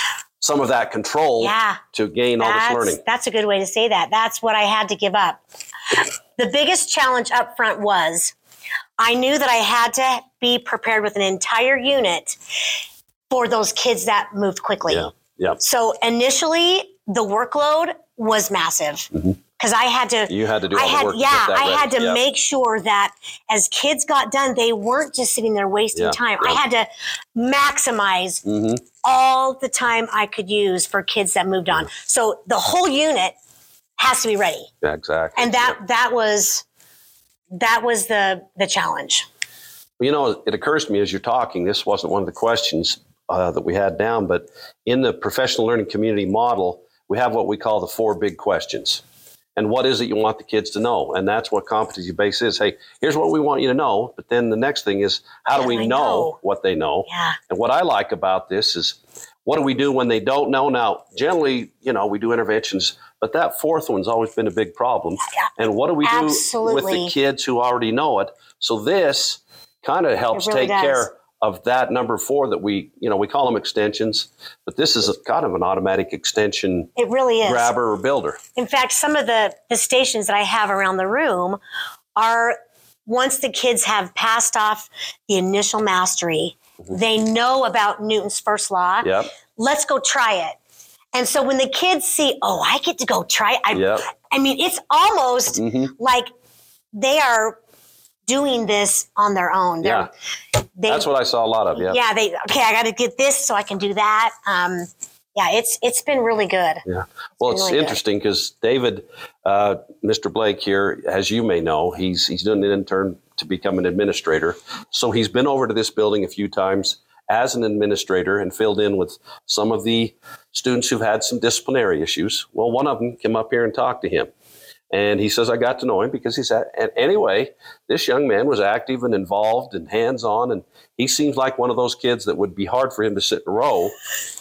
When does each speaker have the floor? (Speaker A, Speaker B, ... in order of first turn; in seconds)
Speaker A: 0.4-3.0, 14.9-15.6, 20.3-22.2, 25.9-26.6, 28.4-28.8, 34.8-35.8, 40.0-49.0, 49.5-76.9, 77.4-78.4, 89.0-89.3, 93.7-94.0, 95.6-95.9, 99.8-100.1, 100.9-102.0, 106.8-124.3, 124.9-133.9
Speaker B: 1.4-1.8, 2.4-5.4, 5.9-8.3, 9.0-12.4, 13.3-28.4, 29.0-33.3, 34.0-34.7, 35.4-36.6, 37.5-39.2, 55.5-56.4, 57.1-57.4, 66.0-67.1, 70.3-71.1, 77.0-77.7, 78.5-81.6, 82.2-90.5, 91.1-96.3, 96.9-97.6, 98.3-100.1, 100.8-101.1, 101.7-106.8, 107.4-108.0